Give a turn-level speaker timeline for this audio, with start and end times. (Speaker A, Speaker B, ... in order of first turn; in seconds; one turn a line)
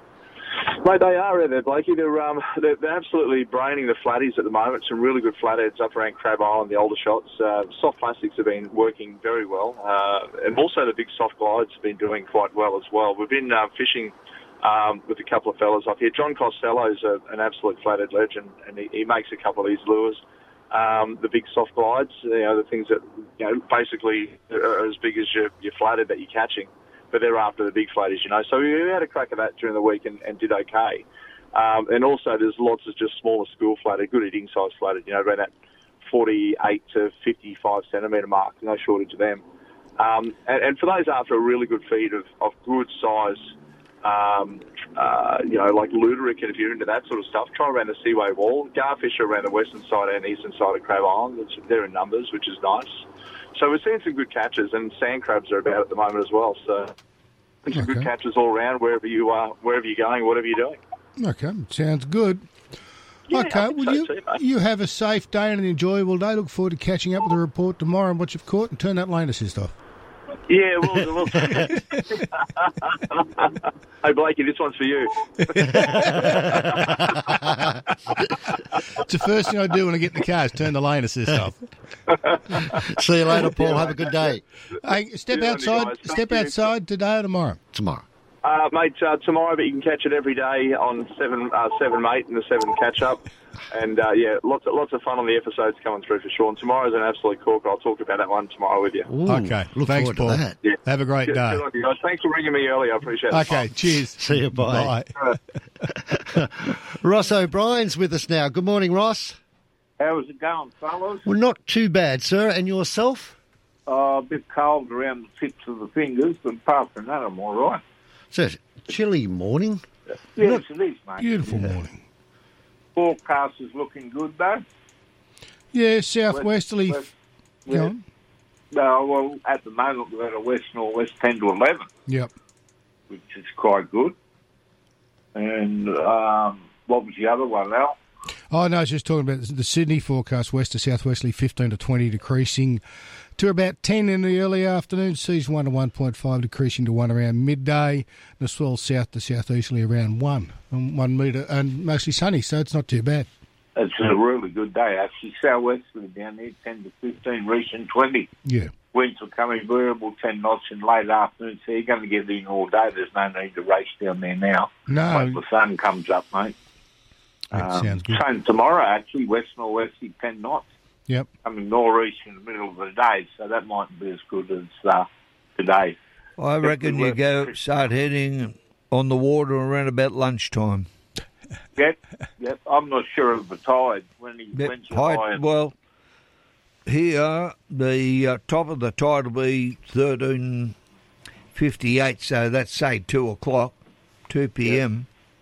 Speaker A: 0.7-39.4
Speaker A: 40.0-56.9
Speaker A: 57.6-60.8
Speaker B: 57.7-58.1
Speaker B: 61.2-62.5
Speaker A: 63.3-64.4
Speaker B: 63.3-69.7
Speaker A: 70.5-76.8
Speaker C: 75.8-77.6
Speaker B: 79.0-81.6
Speaker A: 82.1-82.4
Speaker C: 82.7-84.4
Speaker A: 83.5-84.0
Speaker B: 84.8-87.6
Speaker A: 85.3-86.6
Speaker C: 87.7-88.0
Speaker A: 88.4-99.1
Speaker C: 99.0-100.6
Speaker B: 99.2-101.6
Speaker A: 101.3-103.7
Speaker B: 103.3-105.1
Speaker C: 104.1-105.0
Speaker C: 106.1-109.4
Speaker D: 110.0-111.2
Speaker C: 111.2-113.3
Speaker D: 113.9-117.8
Speaker C: 118.3-119.8
Speaker D: 120.4-121.7
Speaker B: 121.2-122.0
Speaker D: 122.9-124.6
Speaker B: 125.7-127.0
Speaker D: 126.3-127.1
Speaker D: 127.7-127.9
Speaker B: 127.7-128.0
Speaker D: 128.7-131.9
Speaker B: 132.1-132.3
Speaker D: 133.1-134.1
Speaker D: 135.3-137.9
Speaker B: 138.5-142.8
Speaker B: 143.4-153.3
Speaker D: 153.8-158.3
Speaker B: 158.4-158.7
Speaker D: 158.9-166.5
Speaker B: 164.9-165.4
Speaker B: 167.5-168.2
Speaker D: 167.5-170.7
Speaker D: 171.4-175.1
Speaker D: 175.6-175.9
Speaker E: 176.4-180.9
Speaker D: 176.6-177.5
Speaker D: 181.8-185.4
Speaker E: 184.6-185.7
Speaker E: 186.9-190.7
Speaker E: 191.5-193.8
Speaker E: 194.3-195.1